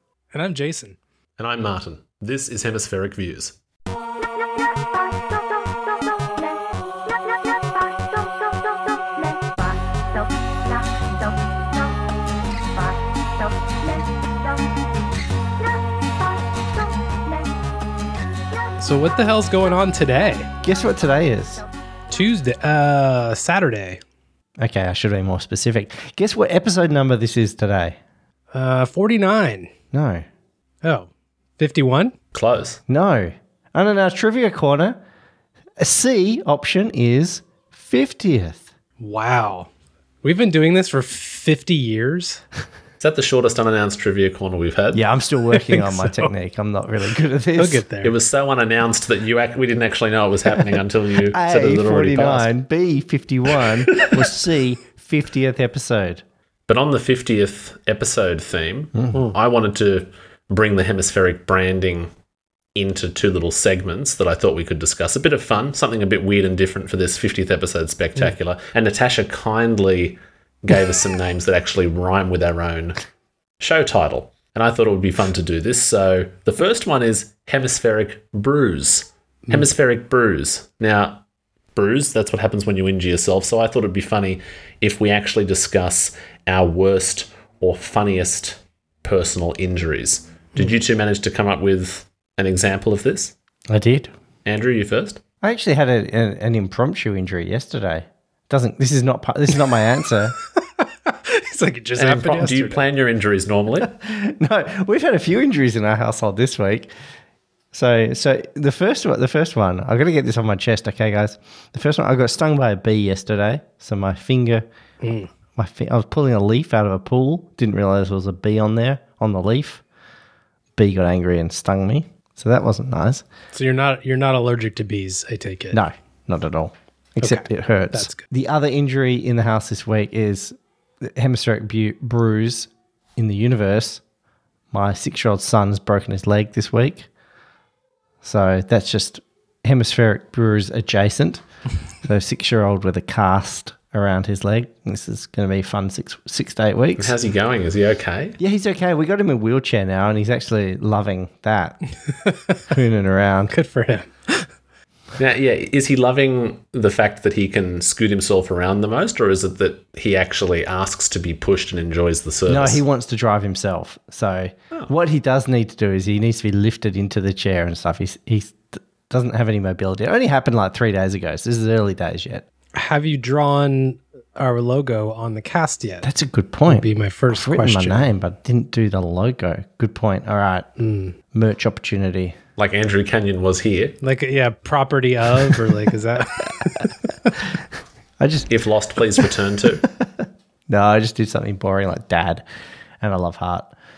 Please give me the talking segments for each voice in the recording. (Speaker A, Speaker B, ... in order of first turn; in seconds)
Speaker A: 0.3-1.0, 18.8-20.5, 22.1-24.0, 28.5-29.7, 30.8-32.1, 39.0-39.7, 40.2-42.4, 45.5-46.3, 47.5-48.1, 100.8-102.8, 115.0-115.3, 123.5-125.8, 127.2-128.2, 152.2-152.6, 153.5-154.5, 172.7-176.1, 176.7-178.1, 180.8-181.2, 184.0-187.4
Speaker B: 1.4-3.5, 32.3-32.8, 43.0-45.0, 48.0-52.5, 56.7-62.1, 62.7-73.0, 73.6-81.2, 81.7-93.3, 94.4-95.2, 102.0-103.9, 147.0-148.4, 155.2-162.8, 182.6-184.0, 188.5-189.8
Speaker C: 20.6-21.6, 24.6-28.0, 29.9-30.2, 32.9-35.0, 35.8-38.7, 44.9-47.8, 51.3-56.2, 93.7-94.1, 95.4-100.3, 103.8-106.9, 107.7-114.6, 115.5-119.8, 120.8-123.2, 125.7-134.0, 134.7-137.1, 138.2-141.4, 142.0-147.1, 148.4-151.8, 152.7-153.5, 162.5-172.4, 176.0-180.7, 181.3-182.3, 188.2-188.5, 190.0-192.4, 193.0-193.7